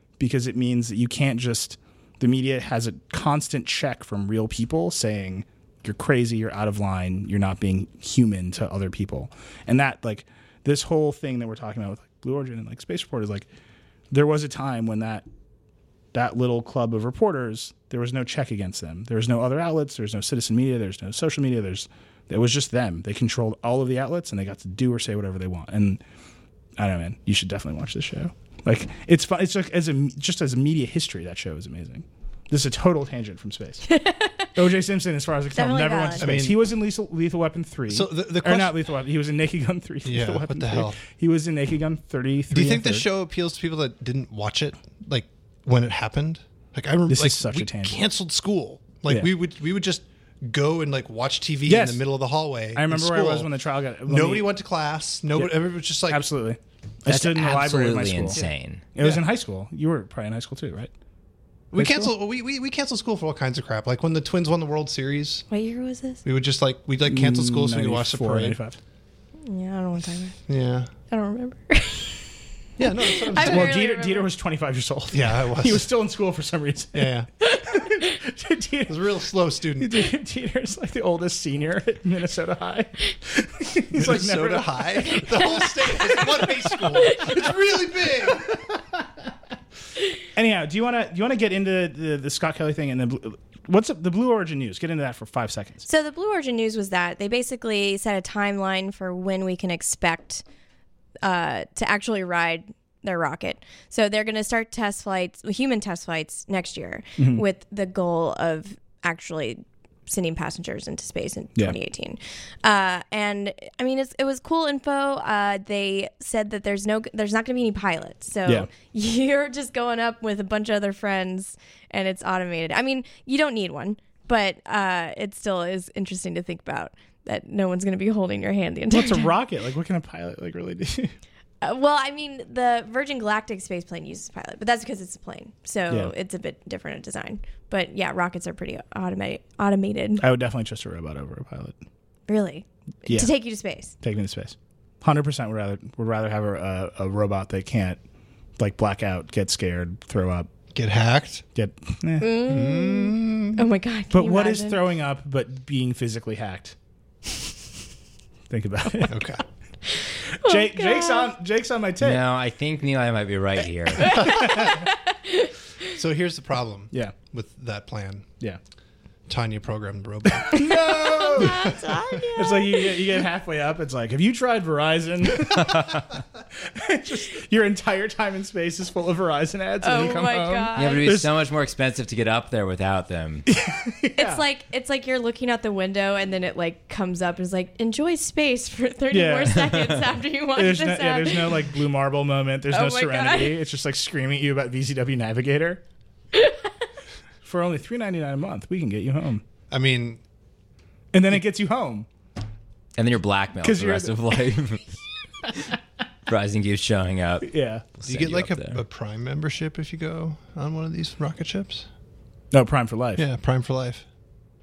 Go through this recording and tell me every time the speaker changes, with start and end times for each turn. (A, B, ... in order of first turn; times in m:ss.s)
0:00.2-0:13.5 A
0:14.1-0:15.2 A
0:16.1-0:26.0 A
0:26.8-0:33.9 A
0:33.9-0:34.5 B
0:34.6-0:43.0 A
0:35.5-0:36.3 B
0:36.2-0:36.6 C
0:37.9-0:38.9 C
0:40.0-0:41.0 C
0:42.5-0:53.5 C
0:47.1-0:48.0 A
0:51.7-0:52.0 A
0:52.7-0:54.5 A
0:54.1-0:56.2 C
0:55.4-0:58.4 A
0:57.1-0:58.8 D
0:59.0-1:00.9 A
1:01.7-1:05.4 C
1:01.7-1:02.1 A
1:05.5-1:06.2 B
1:06.2-1:08.6 C
1:07.1-1:08.8 A
1:09.4-1:10.4 B
1:10.5-1:10.9 C
1:11.1-1:12.3 B
1:12.8-1:13.8 C
1:13.0-1:14.3 B
1:13.4-1:17.1 A
1:15.1-1:15.9 C
1:16.9-1:17.3 C
1:17.6-1:19.0 A
1:18.9-1:20.0 C
1:19.8-1:25.2 A
1:23.9-1:28.7 C
1:25.2-1:26.5 B
1:27.0-1:27.4 B
1:30.3-1:35.8 A
1:35.9-1:40.4 B
1:41.2-2:09.3 B
1:47.2-1:47.4 A
2:08.9-2:11.1 A
2:11.6-2:20.2 B
2:20.2-2:21.8 A
2:22.3-2:23.9 B
2:23.1-2:23.3 A
2:24.0-2:28.0 A
2:28.6-2:30.5 A
2:30.7-2:31.4 C
2:31.6-2:32.4 A
2:32.2-2:34.8 B
2:32.5-2:33.7 C
2:34.1-2:36.8 A
2:38.5-2:39.2 A
2:39.1-2:39.4 C
2:40.2-2:42.2 A
2:40.4-2:41.3 B
2:42.0-2:44.5 D
2:44.0-2:45.5 B
2:44.3-2:44.8 A
2:45.9-2:48.3 C
2:49.3-2:52.0 C
2:50.3-2:51.8 A
2:51.0-2:53.1 B
2:52.3-3:01.3 A
2:55.5-2:56.0 D
2:59.8-3:01.1 B
3:00.8-3:03.5 D
3:03.5-3:04.4 A
3:04.2-3:11.8 B
3:09.1-3:09.9 A
3:10.5-3:15.8 A
3:12.7-3:13.6 B
3:16.4-3:16.7 B
3:17.4-3:19.4 A
3:19.7-3:20.2 C
3:21.1-3:22.1 A
3:23.0-3:25.0 D
3:23.6-3:24.2 A
3:26.3-3:28.8 D
3:27.4-3:27.8 A
3:28.1-3:31.9 C
3:32.5-3:33.3 A
3:33.2-3:34.0 C